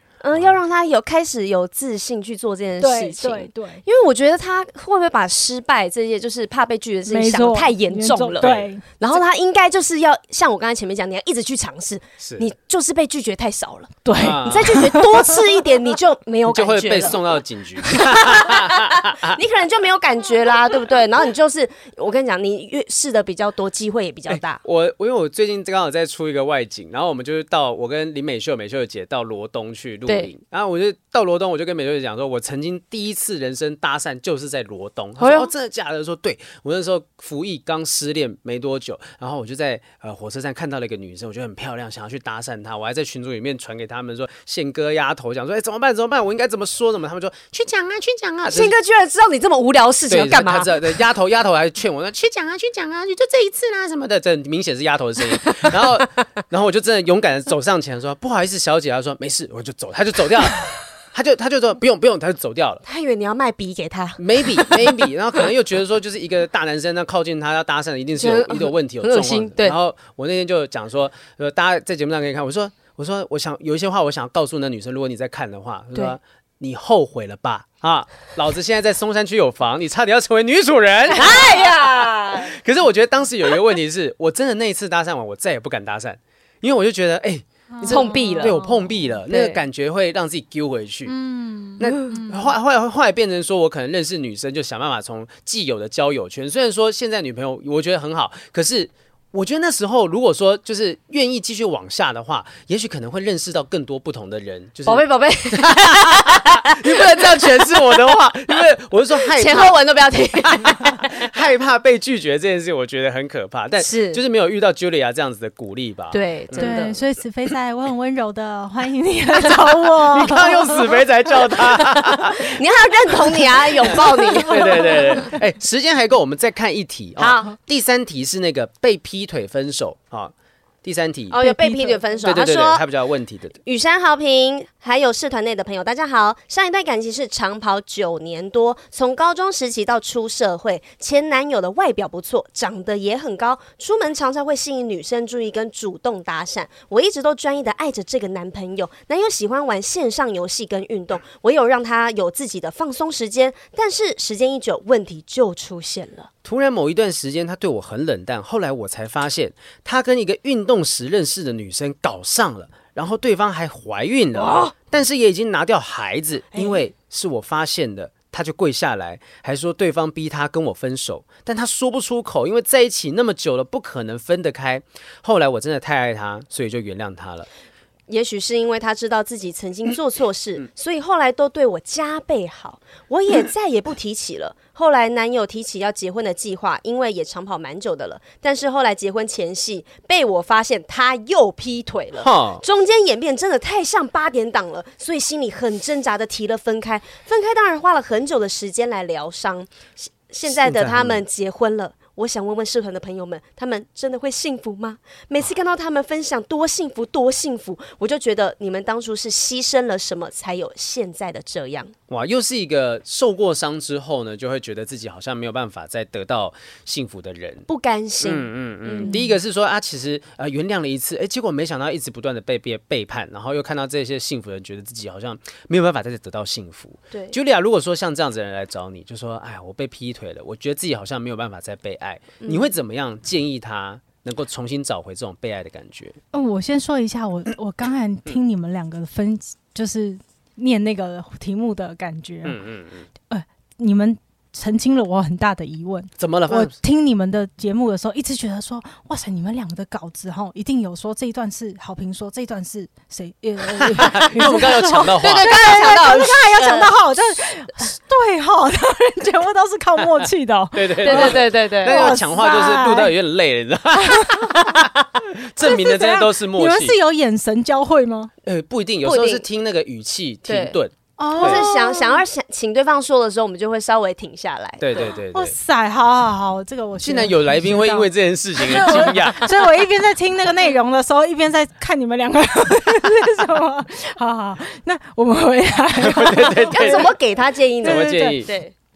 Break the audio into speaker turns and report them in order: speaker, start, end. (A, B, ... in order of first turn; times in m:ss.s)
0:00.2-0:08.5 A
0:02.8-0:03.8 B
0:07.1-0:08.9 B
0:08.4-0:08.7 C
0:09.0-0:17.3 A
0:12.2-0:12.5 C
0:14.0-0:15.3 B
0:14.2-0:14.9 C
0:16.5-0:19.4 C
0:17.8-0:24.6 A
0:24.3-0:48.7 C
0:30.1-0:30.3 A
0:35.2-0:35.5 A
0:48.5-0:51.0 A
0:50.1-1:02.8 C
1:02.8-1:05.1 A
1:04.2-1:21.7 C
1:08.2-1:09.8 A
1:21.1-1:22.6 A
1:22.4-1:31.1 C
1:27.7-1:28.8 B
1:27.9-1:28.6 A
1:29.3-1:29.6 A
1:31.1-1:32.5 B
1:31.8-1:49.7 C
1:44.9-1:47.8 A
1:49.3-1:51.1 A
1:50.4-1:56.8 C
1:53.8-1:54.2 A
1:56.1-1:57.0 A
1:56.6-2:00.9 B
2:00.1-2:02.6 C
2:01.3-2:05.2 A
2:03.1-2:11.5 C
2:04.5-2:05.3 B
2:07.2-2:07.5 A
2:11.3-2:12.8 A
2:11.5-2:12.0 B
2:12.2-2:13.6 C
2:13.6-2:36.3 A
2:36.4-2:57.5 C
2:44.4-2:44.7 A
2:58.1-3:31.9 A
3:12.2-3:12.6 C
3:20.5-3:21.2 C
3:32.1-3:37.7 C
3:37.7-3:39.2 A
3:38.2-3:56.2 C
3:39.0-3:39.3 B
3:47.1-3:47.4 A
3:56.3-4:02.6 B
4:02.4-4:03.1 C
4:03.3-4:23.1 B
4:06.2-4:06.7 C
4:13.8-4:15.6 C
4:15.2-4:16.9 A
4:20.7-4:27.0 C
4:21.0-4:22.2 A
4:24.0-4:24.8 B
4:25.6-4:28.3 B
4:28.4-4:31.6 C
4:29.0-4:29.4 A
4:30.5-4:30.8 A
4:31.2-4:32.2 B
4:31.4-4:35.2 A
4:34.8-4:35.6 C
4:35.0-4:47.1 B
4:37.0-4:39.5 C
4:46.0-4:47.1 C
4:46.7-4:48.7 A
4:47.8-4:48.6 C
4:47.8-4:48.4 B